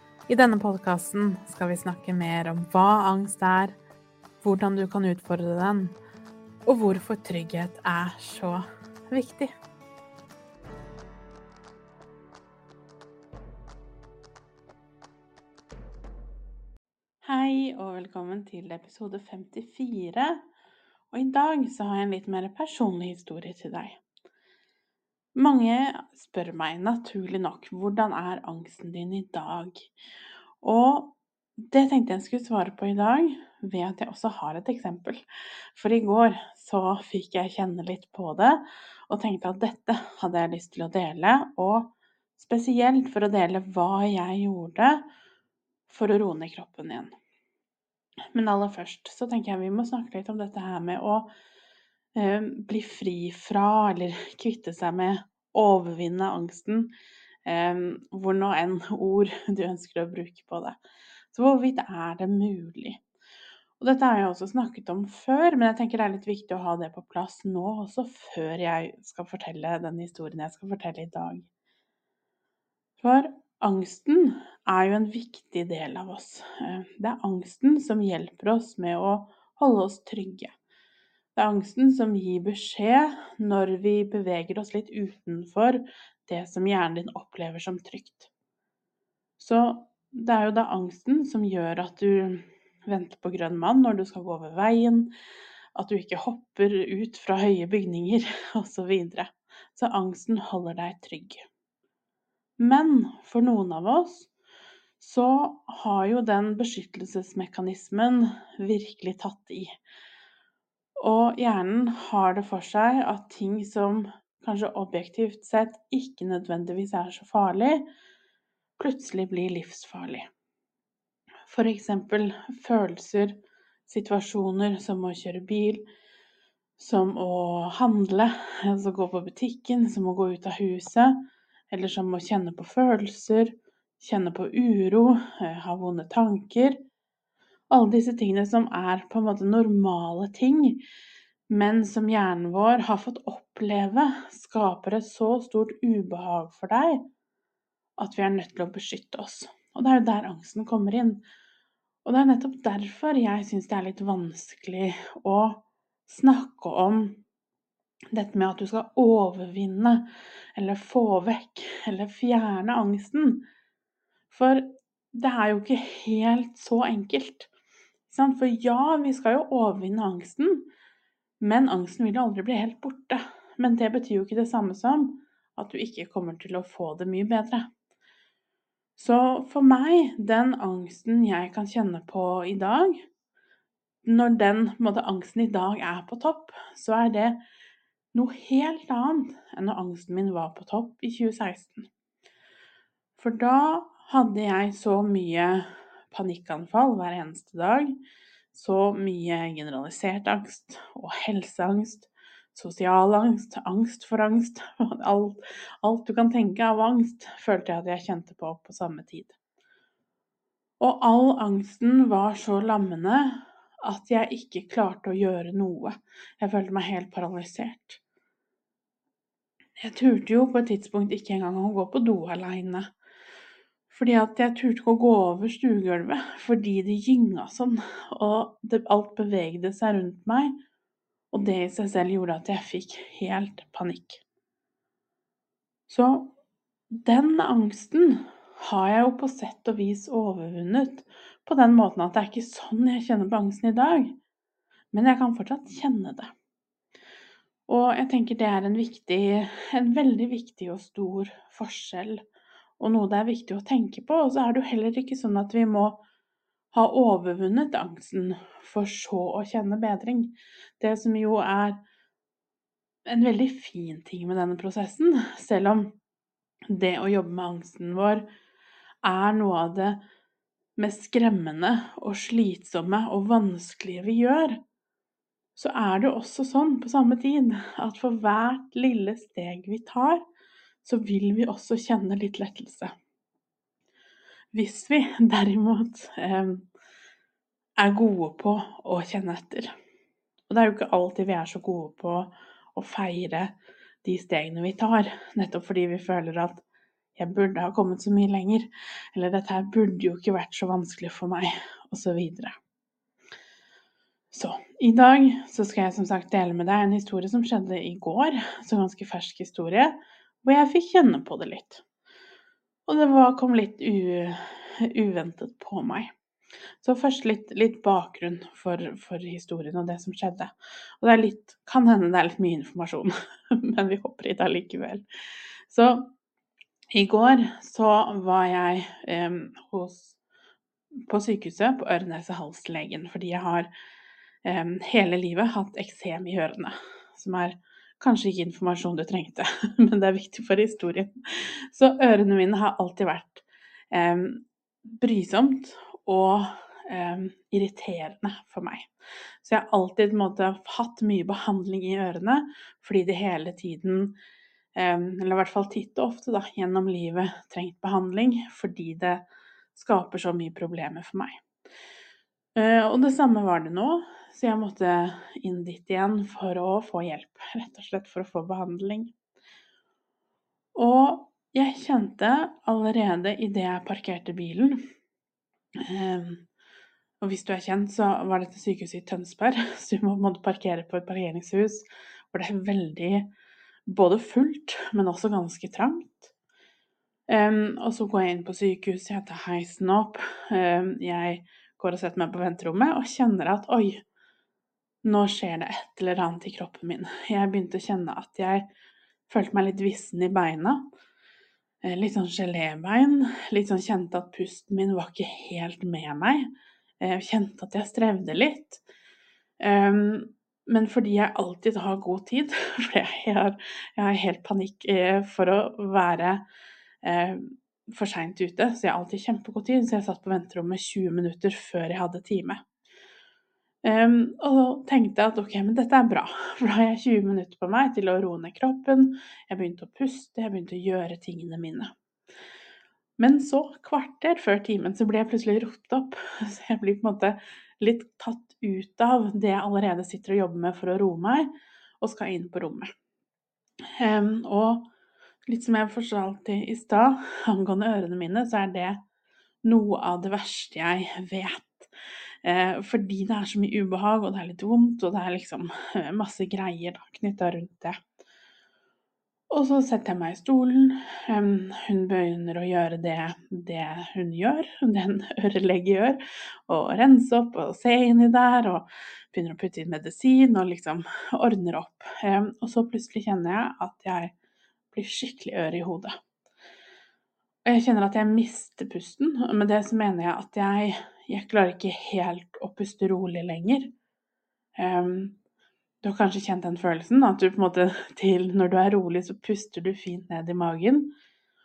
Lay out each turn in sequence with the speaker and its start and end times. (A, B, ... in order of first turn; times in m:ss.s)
0:00.3-0:03.8 A
0:04.4-0:06.0 A
0:06.7-0:09.5 A
0:17.2-0:20.4 A
0:21.1-0:24.0 A
0:25.3-0:29.9 A
0:30.6-0:35.2 A
0:35.7-0:45.0 A
0:45.9-0:47.1 A
0:48.3-0:51.3 A
0:52.2-0:56.9 A
0:57.4-1:00.8 A
1:01.3-1:03.0 A
1:03.8-1:11.5 A
1:13.0-1:20.5 A
1:21.3-1:28.3 A
1:29.4-1:35.1 A
1:35.7-1:41.4 A
1:42.6-1:44.3 A
1:45.0-1:49.7 A
1:51.0-1:57.8 A
1:58.8-2:00.3 A
2:01.4-2:05.9 A
2:06.8-2:16.8 A
2:17.7-2:20.8 A
2:21.5-2:27.1 A
2:28.0-2:31.2 A
2:32.0-2:37.2 A
2:38.1-2:43.4 A
2:44.3-2:47.5 A
2:48.1-2:50.7 A
2:51.4-2:57.7 A
2:59.0-3:03.0 A
3:04.0-3:07.4 A
3:08.1-3:11.9 A
3:13.2-3:18.0 A
3:18.5-3:29.4 A
3:30.8-3:38.0 A
3:39.8-3:42.9 A
3:43.9-3:50.6 A
3:51.3-3:54.2 A
3:55.9-3:56.3 A
3:56.9-4:04.2 A
4:04.9-4:06.3 A
4:07.7-4:12.2 A
4:12.8-4:16.0 A
4:16.7-4:21.8 A
4:23.1-4:26.0 A
4:26.7-4:28.2 A
4:29.0-4:30.0 A
4:30.8-4:34.6 A
4:35.6-4:40.2 A
4:40.8-4:42.9 A
4:44.5-4:46.7 A
4:47.8-4:49.7 A
4:50.5-4:56.6 A
4:57.2-5:02.5 A
5:04.3-5:11.8 A
5:12.9-5:16.1 A
5:16.8-5:25.0 A
5:25.7-5:26.1 A
5:26.9-5:30.2 A
5:31.1-5:33.7 A
5:34.4-5:48.9 A
5:49.4-5:54.2 A
5:54.8-6:01.4 A
6:02.6-6:09.1 A
6:10.8-6:14.8 A
6:15.8-6:16.5 A
6:17.2-6:23.3 A
6:23.9-6:26.3 A
6:27.3-6:34.0 A
6:35.0-6:38.7 A
6:39.3-6:40.9 A
6:41.8-6:48.8 A
6:49.6-6:56.4 A
6:57.0-7:02.6 A
7:03.8-7:11.9 A
7:13.2-7:22.9 A
7:24.0-7:24.9 A
7:25.4-7:29.0 A
7:29.6-7:31.9 A
7:32.4-7:38.0 A
7:39.5-7:54.3 A
7:54.9-7:56.1 A
7:57.6-8:03.9 A
8:04.8-8:05.4 A
8:06.0-8:11.1 A